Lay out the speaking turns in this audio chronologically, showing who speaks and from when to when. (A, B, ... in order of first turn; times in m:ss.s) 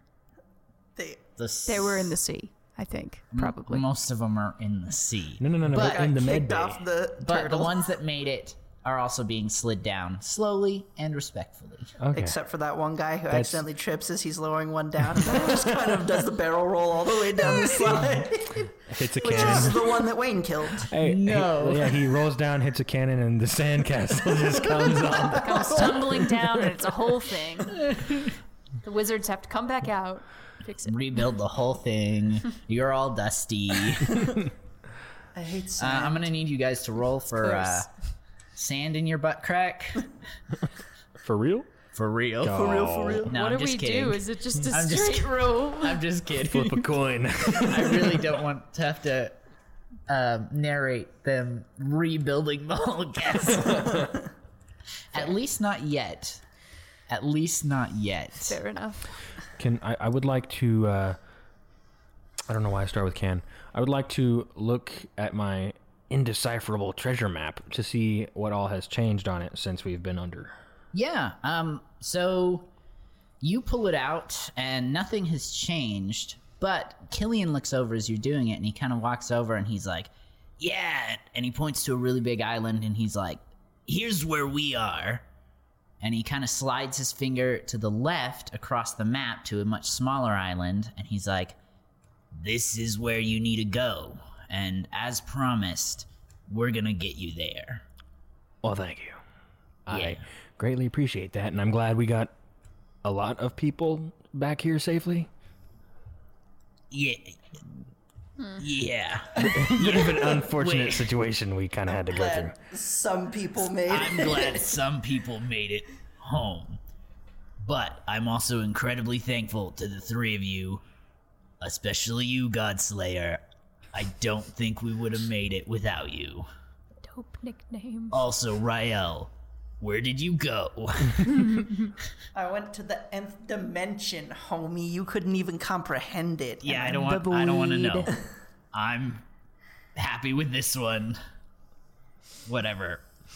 0:01.0-0:01.2 A
0:01.4-0:02.1 B
0:01.6-0:03.8 C
0:03.3-0:06.1 B
0:05.4-0:06.8 D
0:05.7-0:07.8 A
0:07.2-0:11.9 B
0:12.0-0:12.4 D
0:12.1-0:20.9 A
0:13.3-0:13.7 D
0:15.2-0:16.2 D
0:17.4-0:18.2 D
0:18.9-0:20.0 D
0:20.8-0:26.0 D
0:21.0-0:22.0 B
0:25.0-0:26.0 A
0:25.3-0:27.8 C
0:27.7-0:28.3 B
0:28.8-0:31.2 C
0:30.8-0:34.3 B
0:35.3-0:36.3 A
0:35.8-0:37.9 B
0:37.4-0:37.8 C
0:38.5-0:40.1 B
0:41.2-0:41.7 D
0:41.9-0:46.9 B
0:42.4-0:43.3 D
0:42.5-0:43.3 A
0:43.3-0:46.0 C
0:46.5-0:48.4 D
0:47.5-0:49.4 B
0:50.1-0:54.1 B
0:55.1-0:56.4 B
0:57.1-0:58.6 B
0:58.4-0:59.1 C
0:59.6-1:01.2 D
1:02.5-1:10.5 D
1:10.9-1:12.7 B
1:13.4-1:25.2 B
1:26.0-1:31.6 B
1:32.3-1:37.8 B
1:38.6-1:39.2 D
1:39.8-1:42.3 D
1:39.9-1:40.2 B
1:43.0-1:45.3 D
1:46.9-1:47.6 B
1:48.6-1:51.1 B
1:49.4-1:52.5 D
1:52.0-1:54.7 A
1:53.9-1:56.8 B
1:57.6-2:00.8 B
2:01.6-2:03.4 B
2:03.9-2:06.5 B
2:07.0-2:08.2 C
2:08.1-2:11.7 B
2:11.3-2:11.8 C
2:12.3-2:17.0 A
2:16.6-2:18.2 B
2:16.8-2:18.1 C
2:18.7-2:19.2 B
2:19.9-2:21.2 B
2:22.4-2:23.0 B